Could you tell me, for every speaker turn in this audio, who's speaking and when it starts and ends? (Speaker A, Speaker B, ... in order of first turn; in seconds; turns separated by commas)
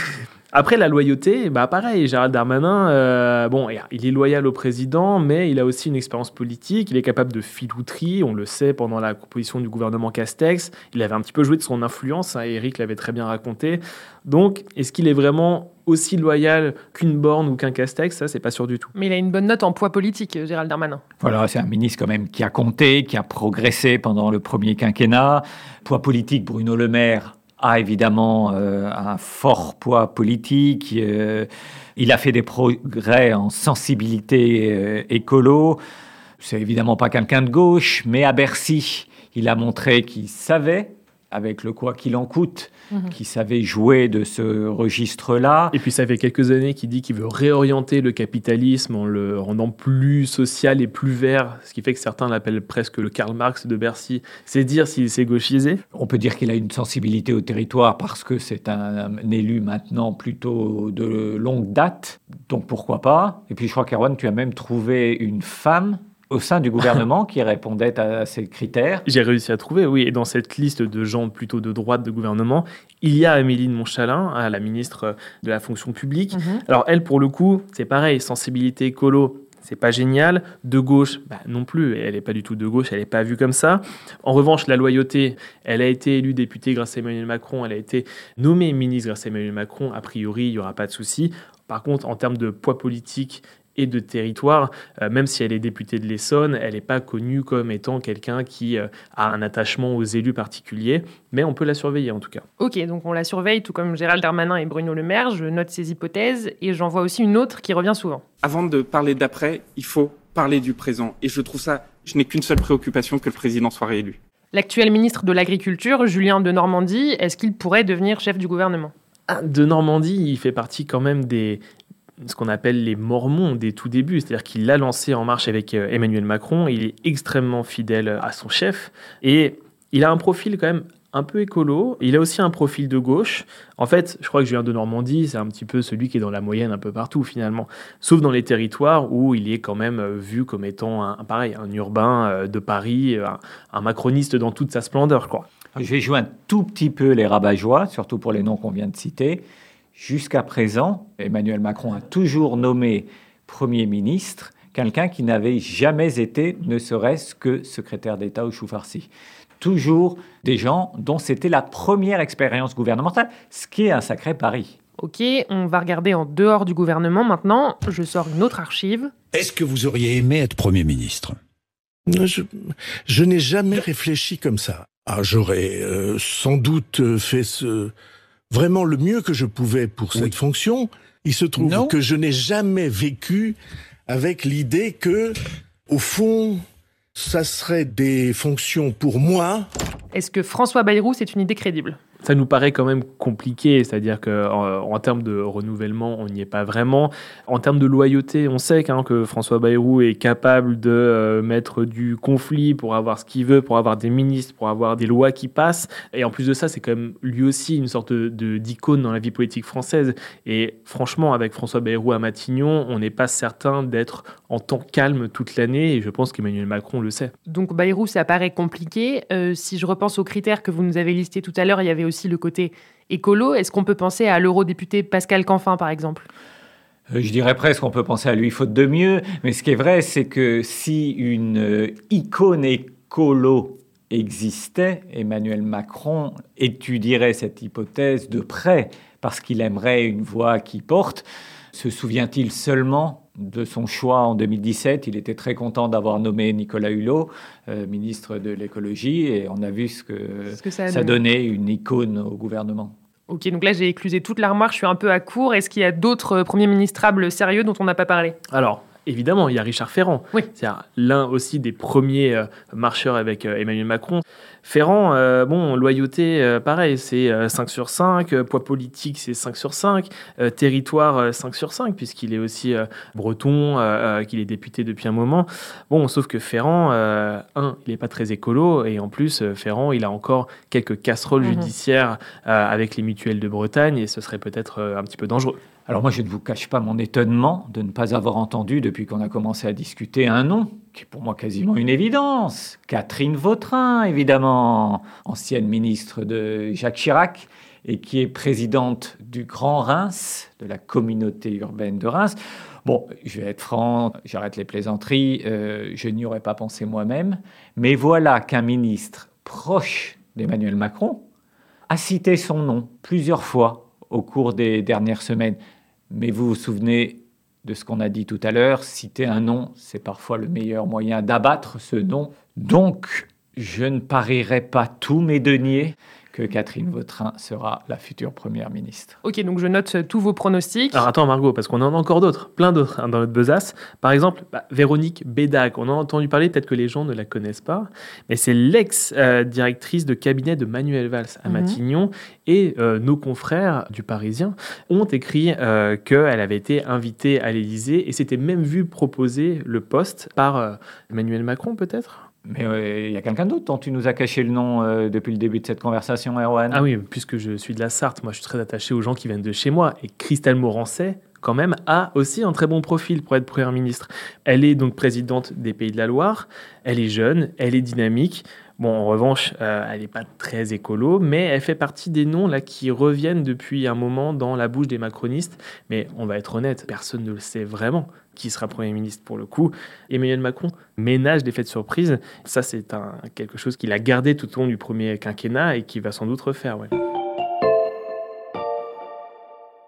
Speaker A: 0.5-18.9, Speaker B: 18.9-21.0, Speaker C: 21.2-35.8, Speaker C: 36.4-45.8, Speaker A: 45.7-55.8, Speaker C: 55.9-69.1, Speaker A: 69.1-102.4, Speaker B: 76.3-76.6, Speaker B: 102.6-108.2, Speaker D: 108.4-114.2, Speaker B: 114.5-118.9, Speaker A: 119.3-121.6, Speaker A: 122.2-145.5, Speaker C: 145.8-164.8, Speaker B: 165.0-169.1, Speaker E: 169.3-171.4, Speaker F: 172.1-172.5, Speaker F: 173.1-177.9, Speaker F: 178.5-183.6, Speaker E: 181.6-181.9, Speaker F: 184.1-185.3, Speaker F: 185.9-186.6, Speaker F: 187.2-189.7, Speaker B: 190.1-192.0, Speaker A: 192.2-217.3, Speaker B: 217.5-226.3, Speaker C: 227.1-252.9, Speaker B: 250.5-251.2, Speaker B: 253.3-258.4, Speaker A: 258.5-285.6, Speaker B: 281.4-281.7, Speaker C: 285.9-311.3, Speaker C: 311.9-315.6, Speaker C: 316.1-329.2, Speaker B: 329.2-331.0, Speaker A: 330.9-352.2, Speaker B: 341.5-341.8, Speaker C: 352.4-356.8, Speaker A: 356.7-386.9